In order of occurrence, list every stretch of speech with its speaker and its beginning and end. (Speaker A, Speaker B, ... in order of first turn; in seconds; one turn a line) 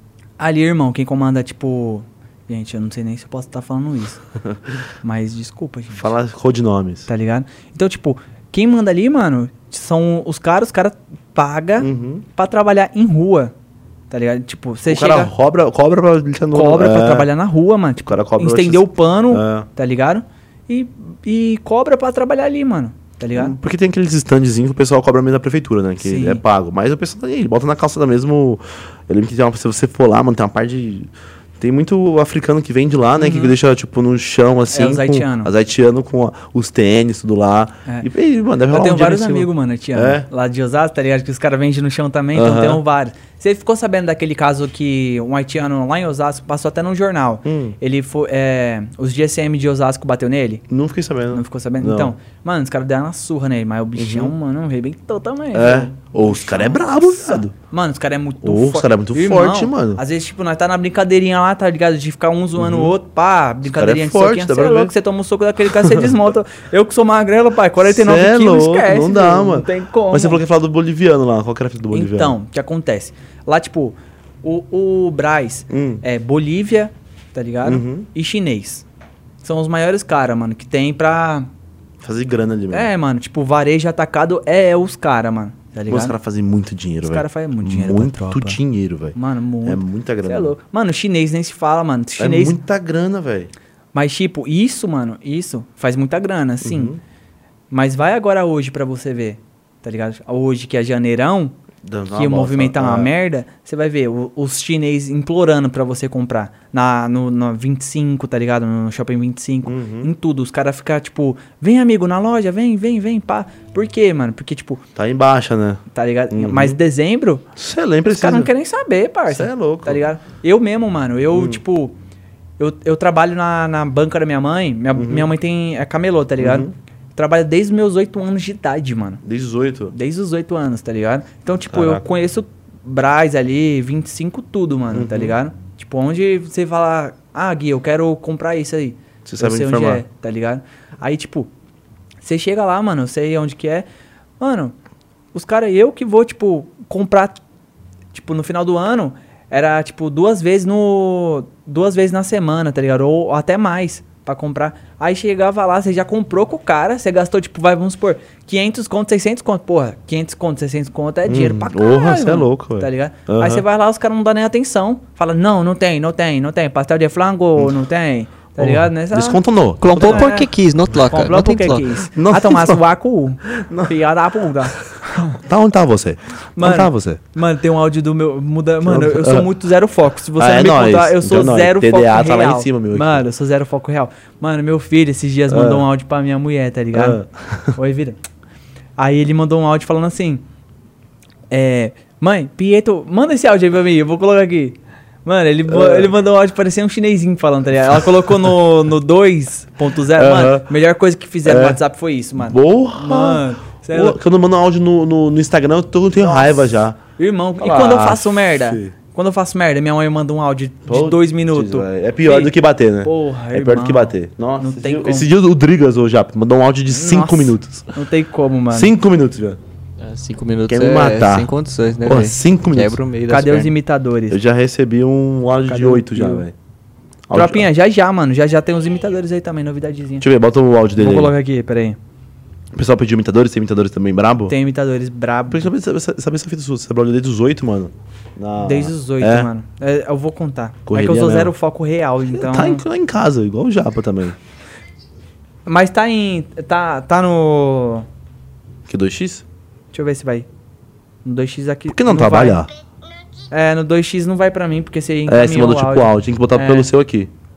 Speaker A: 0.4-4.2
Speaker A: 5.0-6.1
Speaker B: 5.9-7.1
Speaker A: 7.1-13.5
Speaker B: 11.8-12.2
Speaker A: 14.1-15.3
Speaker B: 14.8-17.3
Speaker A: 16.5-23.6
Speaker B: 18.0-19.7
Speaker B: 23.3-40.3
Speaker A: 26.0-26.4
Speaker A: 33.1-33.5
Speaker A: 34.7-35.5
Speaker A: 38.7-50.6
Speaker B: 42.3-42.8
Speaker B: 47.4-47.7
Speaker B: 50.7-52.1
Speaker A: 51.3-70.4
Speaker B: 53.9-54.3
Speaker B: 55.5-57.5
Speaker B: 58.4-60.0
Speaker B: 62.6-62.9
Speaker B: 63.6-64.9
Speaker B: 65.7-66.2
Speaker B: 67.8-72.4
Speaker A: 71.9-78.8
Speaker B: 75.7-76.0
Speaker B: 77.6-78.1
Speaker A: 79.4-81.5
Speaker B: 82.0-82.9
Speaker A: 82.7-86.1
Speaker B: 85.9-90.5
Speaker A: 87.0-88.6
Speaker A: 89.1-92.6
Speaker B: 92.2-93.5
Speaker A: 93.9-96.9
Speaker B: 96.6-97.0
Speaker A: 97.7-101.5
Speaker B: 101.8-103.1
Speaker A: 102.1-114.8
Speaker B: 109.6-110.1
Speaker B: 115.0-116.8
Speaker A: 115.9-117.4
Speaker B: 117.5-118.5
Speaker A: 118.1-121.9
Speaker B: 119.3-120.0
Speaker B: 121.3-121.6
Speaker A: 122.6-129.2
Speaker B: 124.9-125.3
Speaker B: 126.4-126.7
Speaker B: 129.2-129.9
Speaker A: 129.9-141.5
Speaker B: 131.7-132.0
Speaker B: 134.9-135.3
Speaker B: 139.2-140.0
Speaker A: 142.2-143.8
Speaker A: 144.4-144.7
Speaker A: 145.3-147.4
Speaker A: 148.1-175.4
Speaker B: 161.2-163.6
Speaker B: 168.6-170.3
Speaker C: 169.8-171.8
Speaker B: 172.1-172.8
Speaker B: 173.5-173.9
Speaker B: 175.4-177.2
Speaker A: 176.6-187.2
Speaker B: 178.8-179.5
Speaker B: 180.4-183.2
Speaker B: 185.5-185.9
Speaker B: 186.9-187.8
Speaker A: 187.8-188.2
Speaker A: 189.0-190.4
Speaker A: 191.5-204.2
Speaker B: 195.7-196.1
Speaker B: 200.1-200.7
Speaker B: 201.4-201.8
Speaker B: 202.3-207.0
Speaker A: 206.2-215.3
Speaker B: 207.6-208.9
Speaker B: 210.9-217.9
Speaker A: 216.9-218.9
Speaker B: 218.7-219.6
Speaker C: 220.0-223.7
Speaker B: 220.7-221.5
Speaker B: 222.0-223.0
Speaker A: 223.3-224.4
Speaker B: 224.3-226.5
Speaker A: 225.7-226.4
Speaker B: 227.3-227.7
Speaker A: 227.3-230.2
Speaker B: 230.2-231.3
Speaker A: 231.0-232.0
Speaker B: 232.7-234.6
Speaker A: 234.5-235.7
Speaker B: 235.5-239.5
Speaker A: 238.6-242.8
Speaker B: 240.8-241.5
Speaker B: 242.3-244.4
Speaker A: 245.7-248.1
Speaker B: 248.9-249.4
Speaker A: 249.9-250.5
Speaker A: 251.2-252.6
Speaker B: 251.9-252.7
Speaker A: 253.5-256.9
Speaker B: 255.3-257.3